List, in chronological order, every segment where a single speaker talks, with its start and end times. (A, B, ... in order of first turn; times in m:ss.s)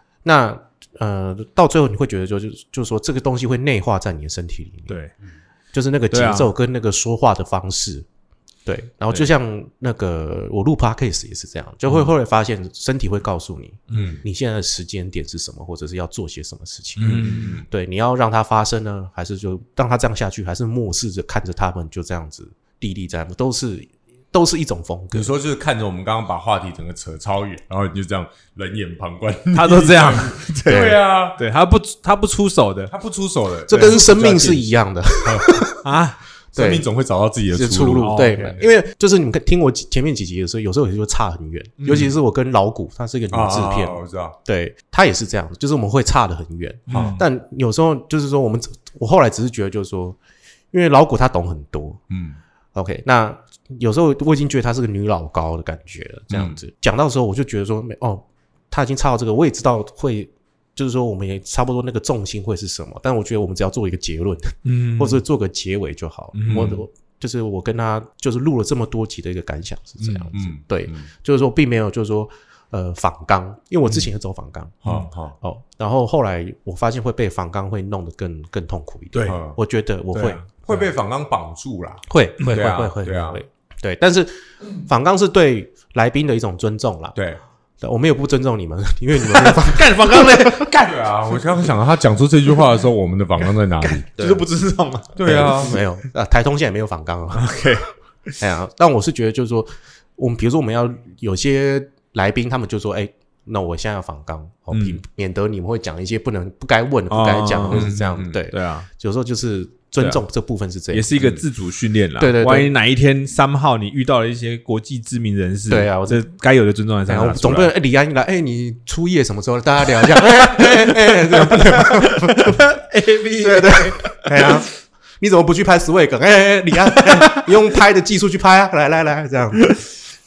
0:00.2-0:05.0 A
0:05.7-0:08.0 A
0:06.1-0:06.5 B
0:08.6-0:25.3 A
0:13.9-0:14.2 B
0:13.9-0:14.2 C
0:17.0-0:17.7 C
0:17.0-0:17.6 B
0:25.1-0:31.4 C
0:29.5-0:32.9 B
0:30.7-0:31.0 A
0:32.9-0:35.7 C
0:33.7-0:35.8 A
0:33.7-0:34.0 B
0:35.8-0:36.2 B
0:36.5-0:38.6 C
0:36.5-0:36.8 A
0:37.5-0:50.2 A
0:38.0-0:38.6 B
0:41.8-0:42.1 B
0:43.3-0:44.4 C
0:46.9-0:47.2 B
0:46.9-0:47.2 C
0:50.7-0:52.0 A
0:52.1-0:52.4 C
0:52.7-1:14.8 A
0:56.3-0:56.6 C
1:04.6-1:05.2 B
1:06.3-1:06.8 B
1:06.5-1:06.8 C
1:10.0-1:10.3 B
1:10.3-1:11.1 C
1:14.8-1:15.4 C
1:15.4-1:20.4 A
1:19.1-1:19.4 B
1:19.2-1:19.6 C
1:20.1-1:20.8 B
1:20.6-1:23.4 C
1:22.1-1:27.2 A
1:22.4-1:22.9 B
1:27.1-1:27.4 C
1:27.8-1:30.6 A
1:29.2-1:30.7 B
1:30.4-1:34.1 C
1:33.8-1:35.4 B
1:34.2-1:34.4 A
1:35.1-1:35.8 C
1:35.2-1:37.5 A
1:37.4-1:37.9 B
1:38.4-1:51.4 A
1:44.7-1:45.0 B
1:47.1-1:48.9 B
1:47.7-1:48.4 C
1:50.9-1:57.7 B
1:52.2-1:52.7 A
1:55.7-1:56.2 A
1:57.1-2:02.7 A
2:00.2-2:04.6 B
2:03.4-2:09.8 A
2:06.9-2:07.5 B